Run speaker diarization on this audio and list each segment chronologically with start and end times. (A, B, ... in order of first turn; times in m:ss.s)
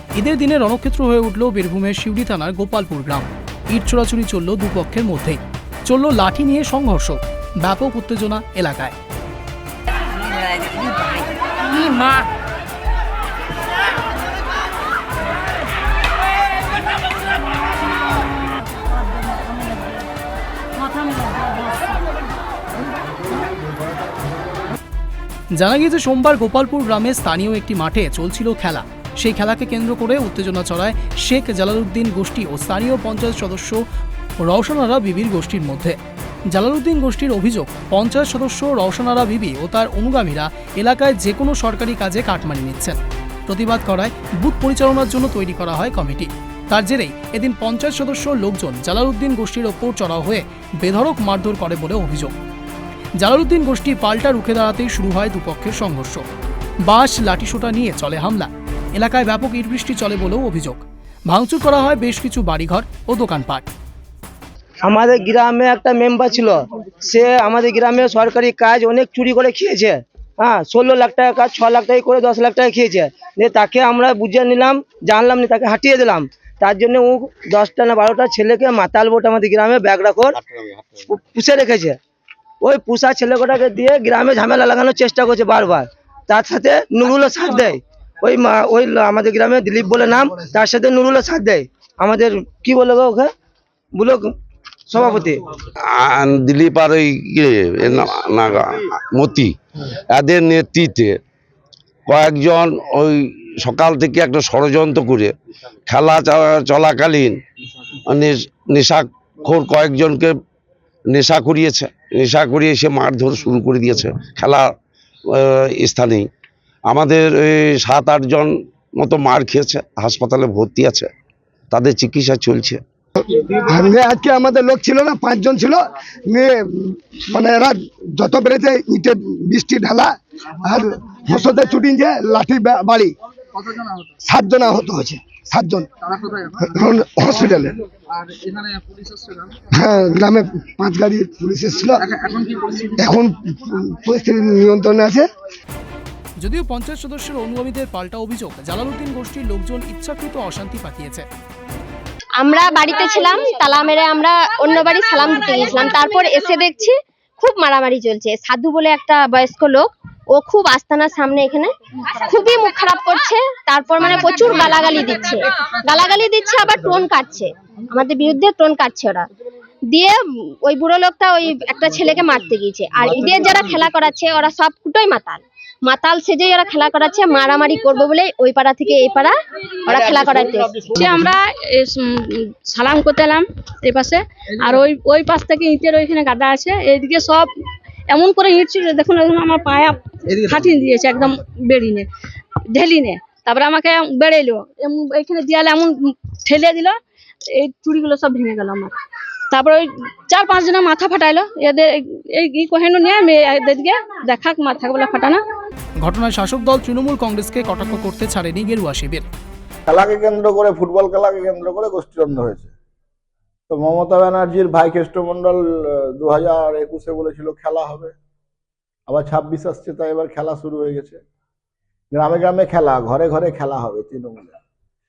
0:00.2-0:09.0 A
0:25.6-0:33.8 A
0:34.4-0:36.0 A
0:36.5-0:52.3 A
0:53.2-0:56.2 A
0:56.8-1:03.7 A
1:04.8-1:20.4 B
1:21.0-1:22.0 B
1:22.6-1:33.3 B
1:33.9-1:34.3 B
1:34.9-1:35.4 B
1:36.0-1:39.6 C
1:40.1-1:41.2 C
1:42.1-1:45.3 C
1:45.9-1:47.4 C
1:48.1-1:50.3 C
1:51.1-1:54.7 C
1:55.3-1:56.3 C
1:56.9-2:01.1 C
2:01.7-2:02.8 C
2:03.2-2:13.1 D
2:14.2-2:17.8 D
2:19.7-2:25.3 D
2:26.4-2:31.2 A
2:32.4-2:49.3 E
2:49.9-2:59.3 E
2:59.8-3:00.8 E
3:01.0-3:07.5 F
3:08.1-3:12.1 F
3:12.8-3:15.9 F
3:16.5-3:17.0 F
3:17.6-3:18.9 F
3:19.5-3:25.4 F
3:26.0-3:29.2 A
3:29.8-3:32.7 G
3:33.7-3:38.1 G
3:39.1-3:41.2 G
3:42.1-3:44.6 G